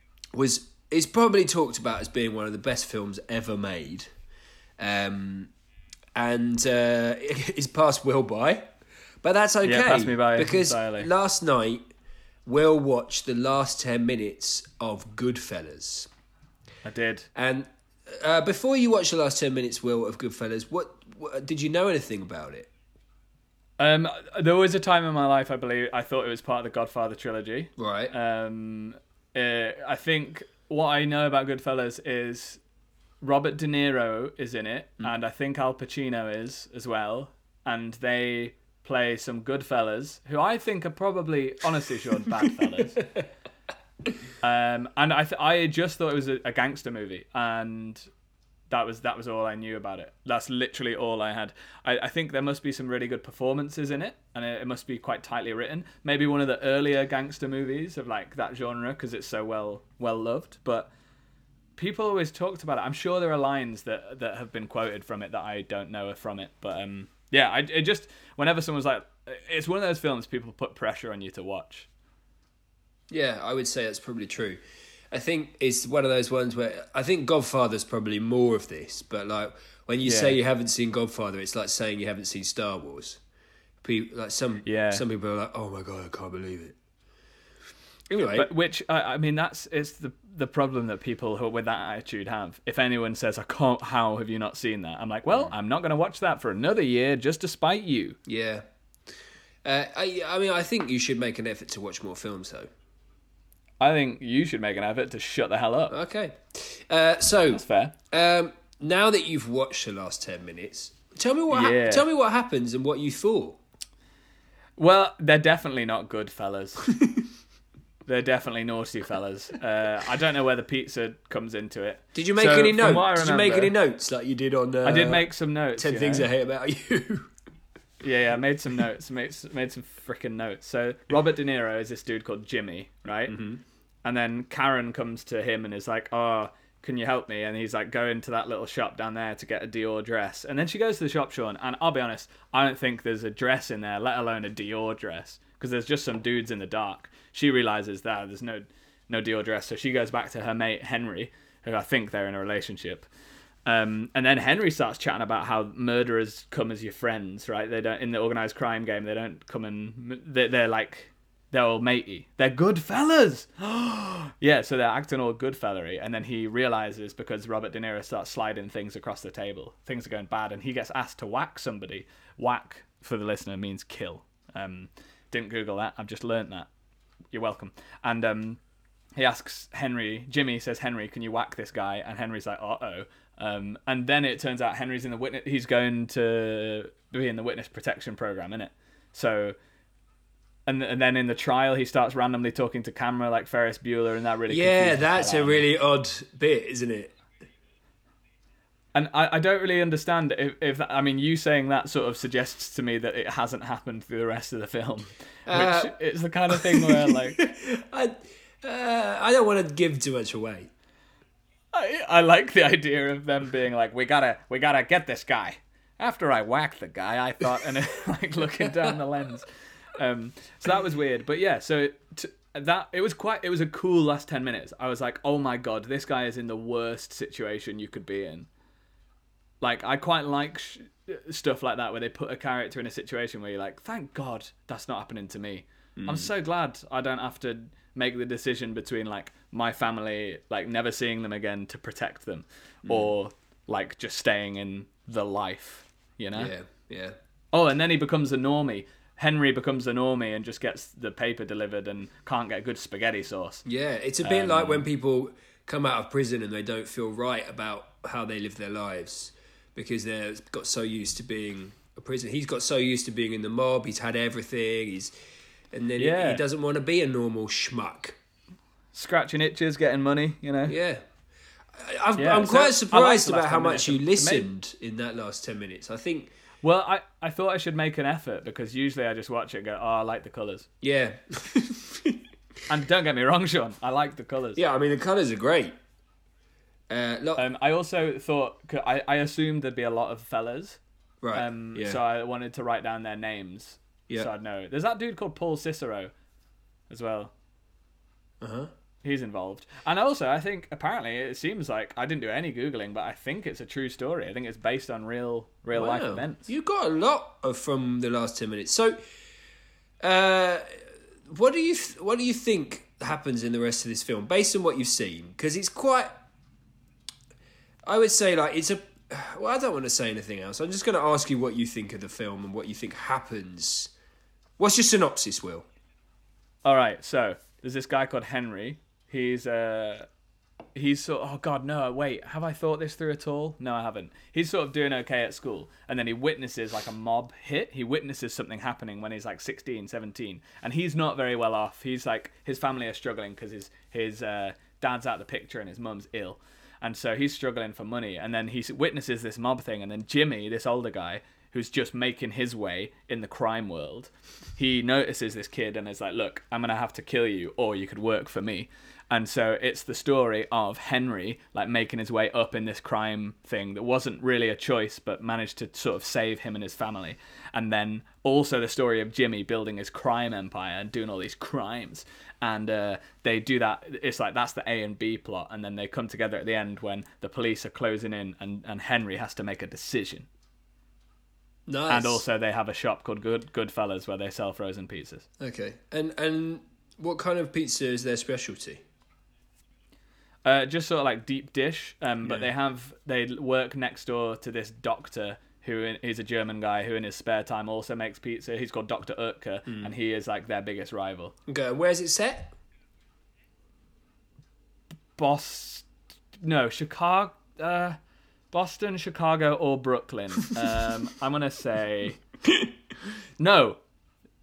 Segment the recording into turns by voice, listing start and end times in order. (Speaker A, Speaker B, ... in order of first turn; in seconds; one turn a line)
Speaker A: 0.3-4.1
Speaker A: 4.8-5.5
Speaker A: 6.1-8.7
Speaker A: 9.2-11.8
Speaker B: 9.6-11.1
Speaker A: 12.4-16.1
Speaker B: 16.8-17.3
Speaker A: 17.3-22.7
Speaker B: 23.8-32.6
Speaker A: 27.8-28.1
Speaker B: 33.2-43.0
Speaker B: 44.4-48.1
Speaker B: 48.7-60.9
Speaker B: 61.8-71.9
Speaker A: 73.1-83.2
Speaker B: 80.0-80.4
Speaker A: 83.8-86.8
Speaker B: 84.6-85.0
Speaker A: 88.1-88.5
Speaker B: 88.3-98.2
Speaker A: 98.2-98.6
Speaker A: 99.6-102.7
Speaker B: 103.8-106.0
Speaker A: 105.9-113.6
Speaker B: 107.5-107.9
Speaker B: 111.5-112.0
Speaker B: 114.8-116.9
Speaker A: 116.8-117.3
Speaker B: 118.0-123.7
Speaker A: 122.1-127.3
Speaker B: 124.8-126.3
Speaker B: 128.0-133.3
Speaker A: 133.3-133.6
Speaker B: 134.0-153.1
Speaker B: 153.7-176.7
Speaker B: 177.3-178.6
Speaker B: 179.2-189.6
Speaker B: 190.7-195.6
Speaker A: 194.5-197.1
Speaker B: 198.9-207.4
Speaker A: 205.5-205.9
Speaker A: 206.5-210.7
Speaker B: 211.7-228.5
Speaker B: 229.6-246.5
Speaker A: 235.9-236.3
Speaker A: 242.8-243.1
Speaker A: 246.3-247.1
Speaker B: 247.5-253.6
Speaker A: 253.6-265.1
Speaker B: 254.2-254.8
Speaker A: 265.7-268.2
Speaker B: 266.0-266.4
Speaker B: 268.9-270.8
Speaker A: 270.7-271.0
Speaker A: 271.7-276.3
Speaker B: 272.1-274.5
Speaker B: 276.6-280.7
Speaker A: 280.8-282.2
Speaker B: 282.7-284.6
Speaker A: 284.6-285.7
Speaker A: 286.9-287.4
Speaker B: 287.4-290.8
Speaker A: 291.2-292.0
Speaker B: 291.3-296.1
Speaker B: 296.9-297.3
Speaker A: 298.4-298.7
Speaker B: 299.0-306.5
Speaker A: 305.7-309.0
Speaker A: 310.0-316.2
Speaker A: 317.9-323.9
Speaker A: 324.6-325.7
Speaker B: 326.6-330.1
Speaker B: 330.7-380.3
Speaker A: 381.7-382.2
Speaker B: 381.9-385.2
Speaker A: 385.4-388.8
Speaker B: 390.4-401.3
Speaker A: 399.7-399.9
Speaker A: 401.5-402.5
Speaker B: 405.2-405.9
Speaker B: 406.4-408.0
Speaker B: 408.5-412.2
Speaker B: 413.4-413.8